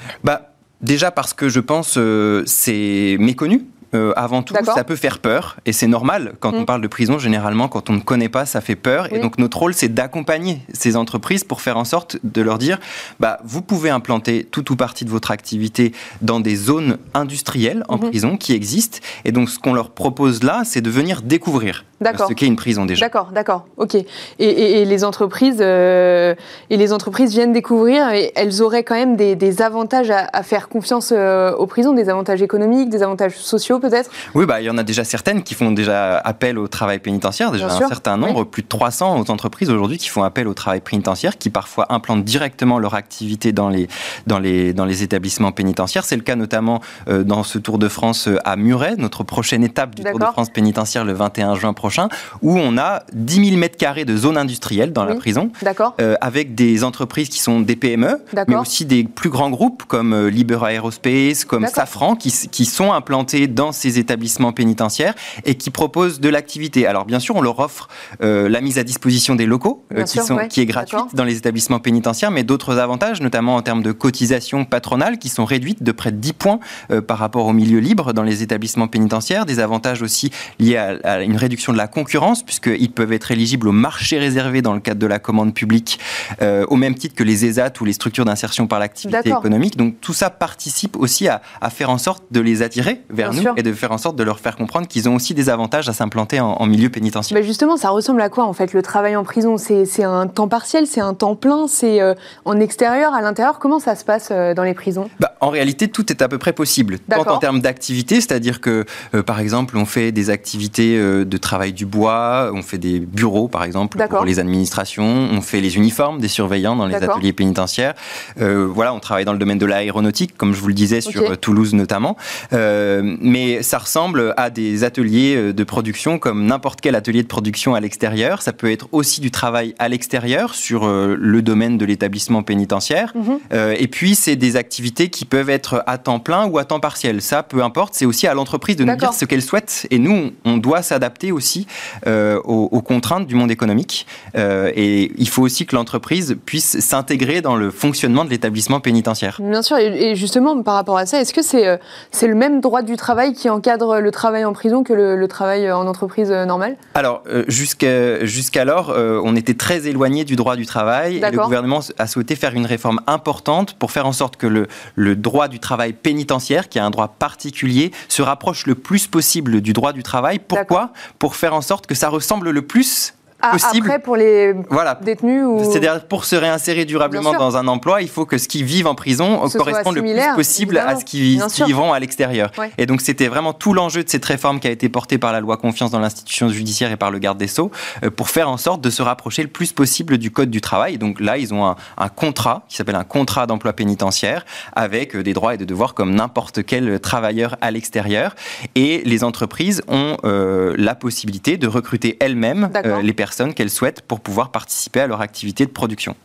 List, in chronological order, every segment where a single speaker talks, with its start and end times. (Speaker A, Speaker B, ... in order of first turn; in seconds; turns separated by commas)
Speaker A: 0.2-23.1, Speaker B: 4.5-4.8, Speaker B: 22.0-22.4, Speaker B: 23.0-34.1, Speaker A: 34.3-97.4, Speaker B: 37.6-38.4, Speaker B: 50.0-50.3, Speaker B: 55.0-55.9, Speaker B: 58.3-58.6, Speaker B: 69.9-71.1, Speaker B: 89.1-89.4, Speaker B: 93.2-93.6, Speaker B: 97.3-105.1, Speaker A: 105.2-149.4, Speaker B: 107.1-107.4, Speaker B: 114.0-114.3, Speaker B: 116.9-117.2, Speaker B: 121.0-121.3, Speaker B: 138.8-139.2, Speaker B: 149.4-156.8, Speaker A: 156.9-174.0, Speaker B: 161.2-161.5, Speaker B: 173.4-175.8, Speaker A: 174.7-206.2, Speaker B: 177.1-177.4, Speaker B: 179.5-181.7, Speaker B: 202.7-203.0